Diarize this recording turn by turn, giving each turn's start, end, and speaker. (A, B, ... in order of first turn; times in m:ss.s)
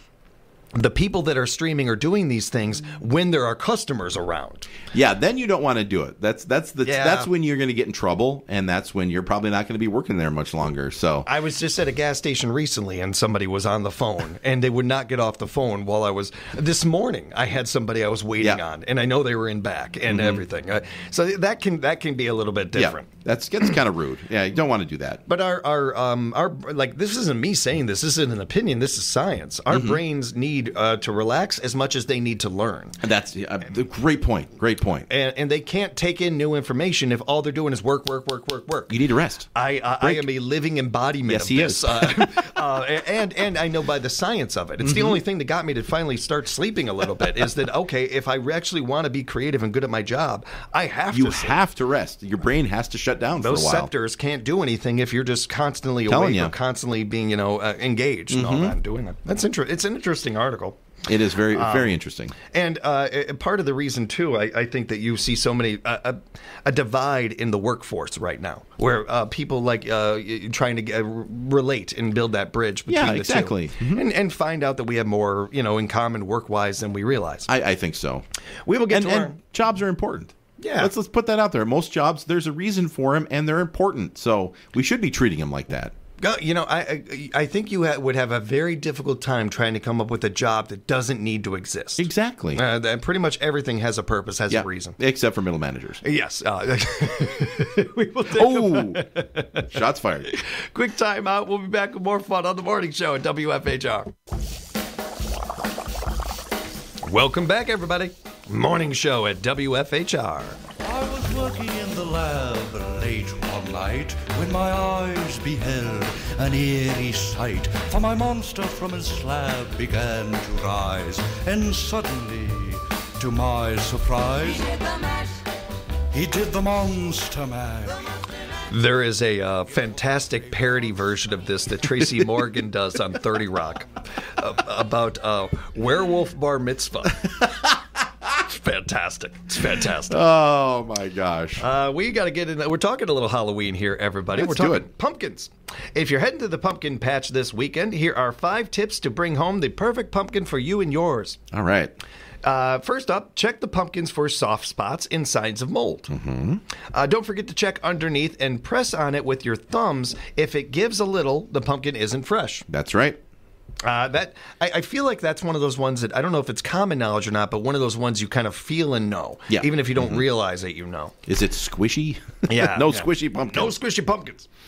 0:00.7-0:04.7 A
0:04.9-0:11.3 B
0:06.8-0:07.3 A
0:11.3-0:23.1 A
0:20.1-0:20.4 B
0:22.7-0:25.2 B
0:25.3-0:33.0 A
0:29.7-0:30.0 B
0:33.0-0:35.1 B
0:35.1-0:38.9 A
0:38.9-0:39.5 B
0:39.5-0:51.6 A
0:41.3-0:42.5 B
0:44.8-0:45.2 B
0:51.1-0:53.9 B
0:53.4-1:00.8 A
0:56.1-0:56.5 B
0:58.3-0:58.8 B
1:01.1-1:02.3 B
1:01.5-1:17.5 A
1:12.9-1:14.1 B
1:17.5-1:18.2 B
1:18.7-1:19.4 A
1:18.9-1:25.9 B
1:20.6-1:20.9 A
1:26.2-1:35.0 A
1:32.0-1:32.6 B
1:34.5-1:36.0 B
1:36.0-1:39.7 A
1:38.3-1:39.1 B
1:39.6-1:40.3 B
1:40.3-1:44.1 A
1:47.0-1:50.6 A
1:50.8-2:05.2 C
2:06.1-2:08.0 C
2:08.7-2:17.3 A
2:17.2-2:17.8 B
2:18.3-2:20.2 A
2:20.1-2:21.6 B
2:21.6-2:31.4 A
2:24.3-2:24.9 B
2:31.5-2:31.9 B
2:32.4-2:36.1 A
2:36.1-2:36.6 B
2:36.9-2:42.6 A
2:42.7-2:43.2 B
2:43.8-2:51.1 A
2:49.5-2:50.2 B
2:51.3-2:53.7 B
2:52.5-2:54.5 A